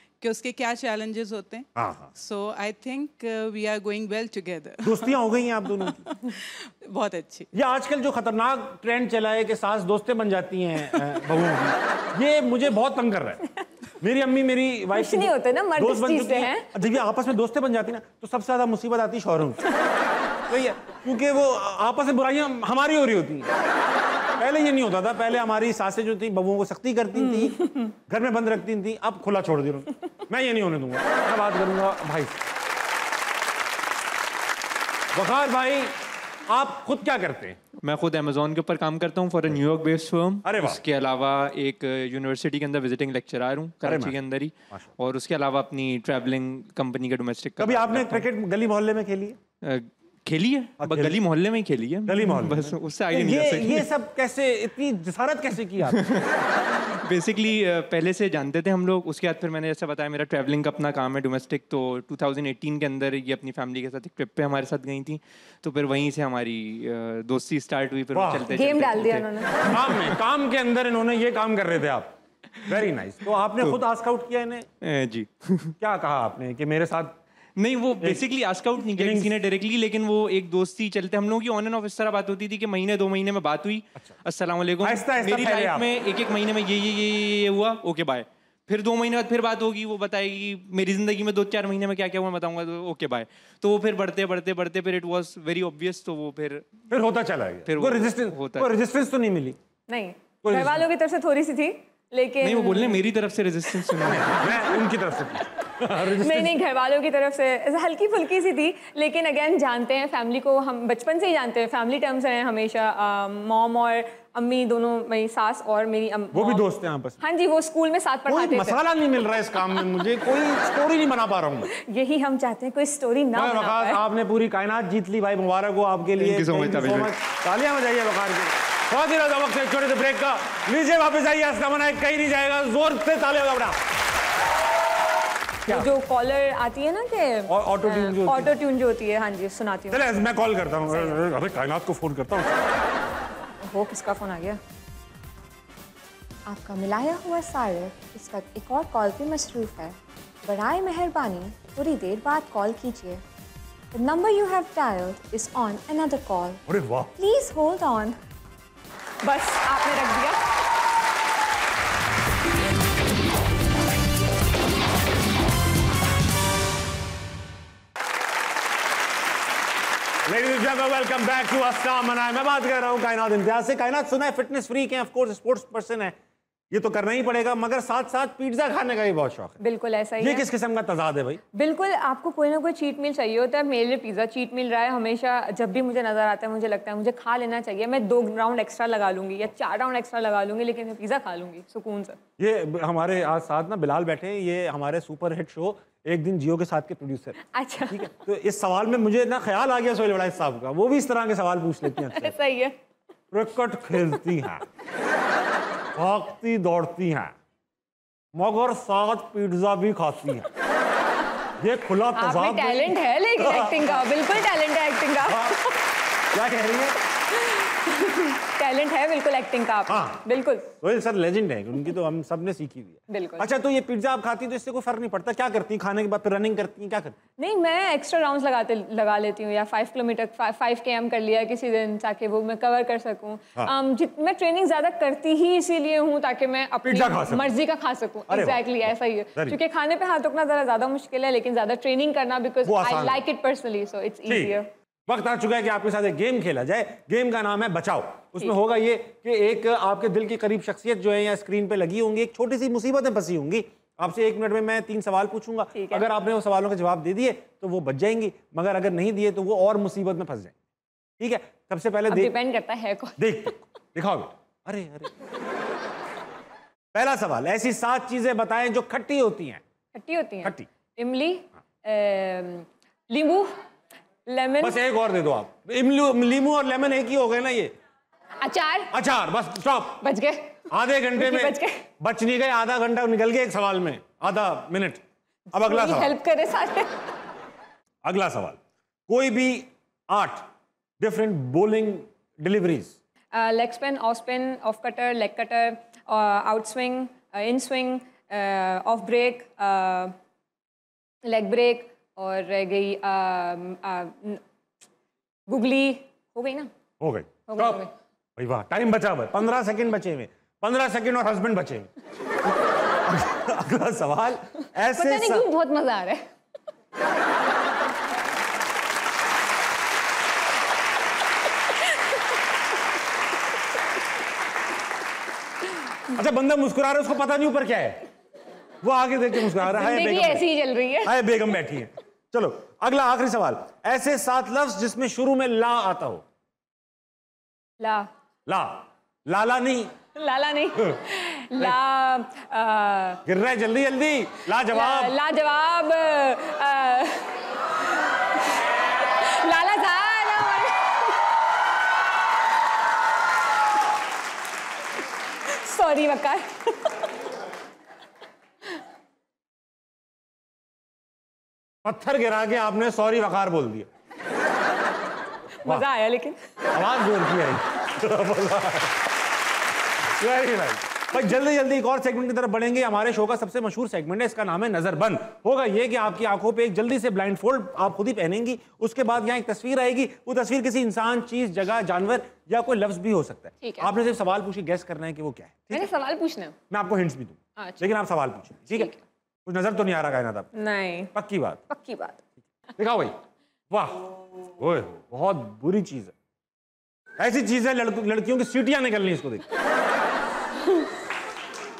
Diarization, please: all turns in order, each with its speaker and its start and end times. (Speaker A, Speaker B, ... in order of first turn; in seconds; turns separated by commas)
Speaker A: 0.2-7.5, Speaker B: 1.8-2.1, Speaker B: 4.8-6.0, Speaker B: 7.5-13.4, Speaker B: 14.0-19.6, Speaker C: 14.9-16.8, Speaker B: 20.5-23.5, Speaker B: 24.4-32.4, Speaker C: 27.1-27.9, Speaker B: 35.1-35.9, Speaker B: 36.5-37.6, Speaker D: 37.8-48.2, Speaker B: 40.4-40.8, Speaker B: 43.8-44.1, Speaker B: 47.6-49.4, Speaker D: 49.6-53.9, Speaker B: 50.8-51.2, Speaker B: 52.1-56.0, Speaker D: 56.0-56.2, Speaker D: 57.0-69.3, Speaker B: 68.1-68.5, Speaker C: 68.5-69.7, Speaker B: 69.7-72.1, Speaker B: 72.7-74.7, Speaker D: 74.8-75.7, Speaker B: 75.8-77.2, Speaker D: 77.6-96.7, Speaker B: 78.9-79.3, Speaker B: 84.8-85.8, Speaker B: 96.9-99.6, Speaker D: 97.7-98.7, Speaker C: 99.9-103.0, Speaker B: 100.4-100.8, Speaker D: 102.4-104.6, Speaker B: 104.0-106.5, Speaker C: 106.2-116.6, Speaker B: 116.3-117.2, Speaker C: 117.2-118.8, Speaker B: 118.3-121.7, Speaker C: 121.7-124.0, Speaker B: 123.3-133.8, Speaker D: 126.2-127.1, Speaker C: 135.7-140.1, Speaker B: 137.5-138.5, Speaker B: 139.9-142.7, Speaker C: 140.9-141.2, Speaker C: 143.6-144.6, Speaker C: 146.4-153.2, Speaker C: 153.9-156.6, Speaker B: 156.7-157.1, Speaker C: 157.2-158.2, Speaker C: 159.2-160.4, Speaker B: 170.2-176.1, Speaker B: 176.7-179.6, Speaker C: 179.6-180.4, Speaker B: 180.2-181.4, Speaker C: 181.5-192.2, Speaker B: 192.4-197.4, Speaker C: 197.5-198.1, Speaker B: 197.9-202.3, Speaker C: 202.1-202.7, Speaker B: 203.3-204.6, Speaker B: 205.9-207.3, Speaker B: 208.3-210.5, Speaker B: 211.6-214.1, Speaker C: 212.1-215.5, Speaker B: 215.2-215.6, Speaker B: 216.3-216.9, Speaker C: 217.5-220.7, Speaker B: 219.9-220.2, Speaker B: 220.8-227.1, Speaker C: 223.1-223.4, Speaker C: 227.4-244.7, Speaker B: 236.9-237.5, Speaker B: 238.3-239.6, Speaker B: 242.6-243.2, Speaker B: 244.3-244.5, Speaker B: 245.1-260.5, Speaker C: 255.7-256.1, Speaker B: 261.2-262.3, Speaker C: 262.1-263.2, Speaker B: 263.2-265.1, Speaker B: 266.9-269.6, Speaker C: 269.9-273.5, Speaker C: 274.2-274.8, Speaker B: 274.6-277.7, Speaker C: 278.4-278.9, Speaker B: 278.9-280.0, Speaker C: 280.0-280.6, Speaker B: 280.7-285.0, Speaker C: 281.2-281.8, Speaker B: 285.5-286.1, Speaker C: 285.5-287.1, Speaker B: 288.0-290.5, Speaker B: 291.0-292.9, Speaker C: 293.3-300.1, Speaker C: 301.2-304.4, Speaker C: 305.5-306.7, Speaker B: 307.0-307.8, Speaker C: 307.5-307.9, Speaker B: 308.4-311.9, Speaker B: 312.4-315.4, Speaker C: 314.9-316.2, Speaker B: 326.1-328.0, Speaker B: 328.8-330.4, Speaker C: 329.6-331.1, Speaker B: 331.0-336.2, Speaker C: 337.8-338.1, Speaker B: 338.5-339.9, Speaker C: 340.1-343.2, Speaker B: 343.2-345.1, Speaker C: 344.7-347.9, Speaker C: 349.2-351.0, Speaker C: 355.5-356.9, Speaker B: 361.8-363.9, Speaker C: 365.6-366.4, Speaker B: 366.7-369.0, Speaker B: 370.2-385.9, Speaker C: 383.6-383.9, Speaker C: 385.7-386.5, Speaker B: 386.7-388.9, Speaker C: 387.6-387.9, Speaker C: 388.7-389.0, Speaker B: 389.4-390.5, Speaker C: 390.5-391.1, Speaker B: 391.1-391.6, Speaker C: 391.7-392.2, Speaker B: 392.8-393.1, Speaker B: 393.7-394.0, Speaker B: 394.6-396.1, Speaker B: 397.2-399.4